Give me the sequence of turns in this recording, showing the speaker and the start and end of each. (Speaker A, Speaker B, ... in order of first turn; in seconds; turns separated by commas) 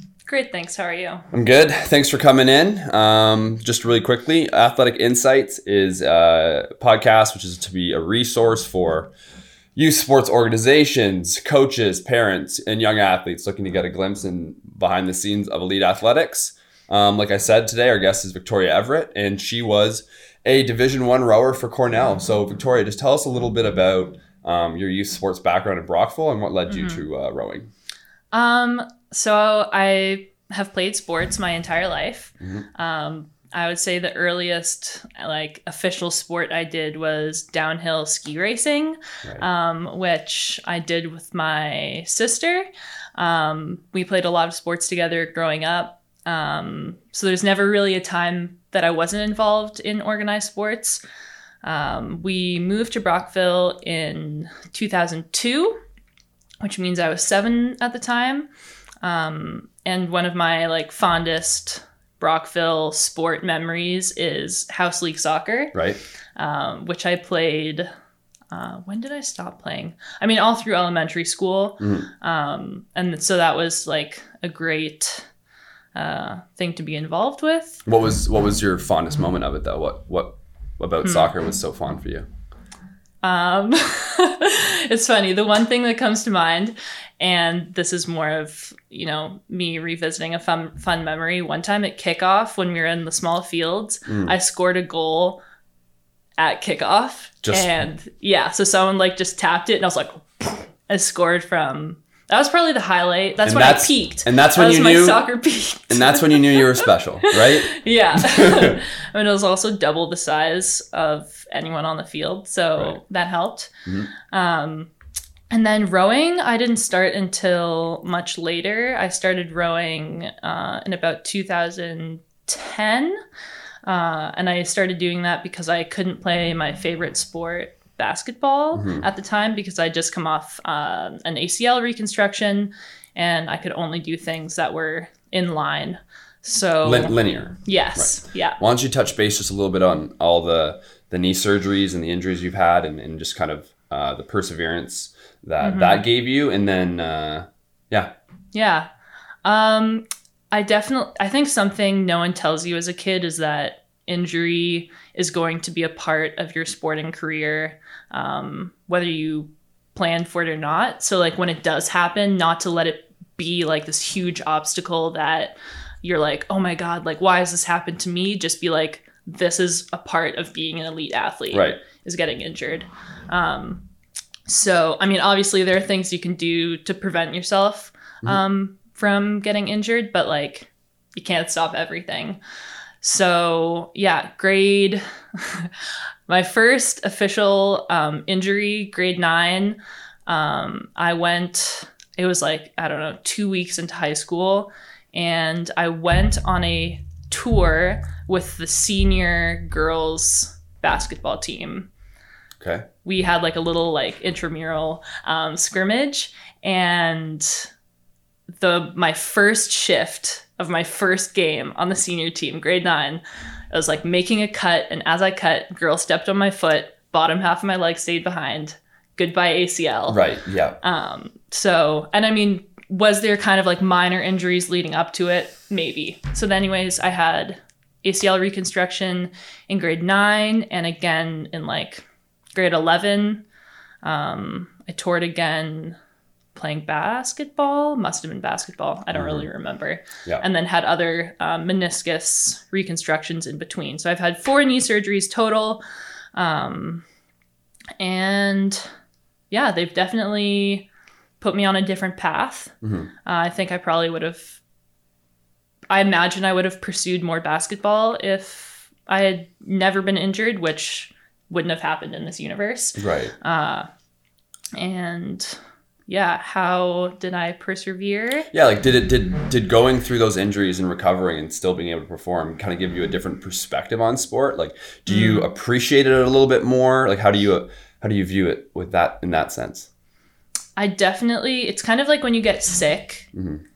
Speaker A: 0.3-1.2, Speaker B: 1.3-9.1, Speaker B: 9.8-27.7, Speaker A: 26.7-27.0, Speaker A: 28.3-51.0, Speaker B: 32.4-32.7, Speaker A: 51.6-55.8, Speaker A: 56.6-58.5, Speaker A: 59.0-65.8, Speaker B: 65.7-66.0, Speaker A: 66.4-67.9, Speaker A: 68.5-75.3, Speaker B: 71.8-72.1, Speaker A: 75.9-77.8, Speaker B: 77.9-82.2, Speaker A: 81.0-81.3, Speaker A: 83.2-95.4, Speaker B: 94.1-94.3, Speaker A: 96.4-114.9, Speaker B: 97.4-97.7, Speaker B: 103.4-105.2, Speaker B: 105.9-108.8, Speaker A: 115.5-123.2, Speaker A: 123.8-138.6, Speaker B: 128.7-129.1, Speaker B: 136.8-148.1, Speaker A: 145.6-146.0, Speaker A: 148.5-148.9, Speaker A: 149.4-173.8, Speaker B: 171.5-171.8, Speaker A: 174.5-182.4, Speaker A: 183.0-201.9, Speaker B: 202.6-202.9, Speaker A: 203.0-207.7, Speaker A: 208.6-220.2, Speaker B: 220.1-220.8, Speaker A: 220.8-232.0, Speaker A: 232.6-233.4, Speaker A: 234.0-235.9, Speaker A: 236.6-245.8, Speaker B: 239.1-239.5, Speaker A: 246.3-247.1, Speaker A: 248.0-248.8, Speaker A: 249.5-250.9, Speaker A: 251.4-254.6, Speaker B: 252.8-253.1, Speaker A: 255.9-263.9, Speaker B: 263.0-263.3, Speaker A: 264.8-268.5, Speaker B: 268.5-279.9, Speaker A: 275.1-275.5, Speaker A: 280.8-283.3, Speaker B: 283.3-283.6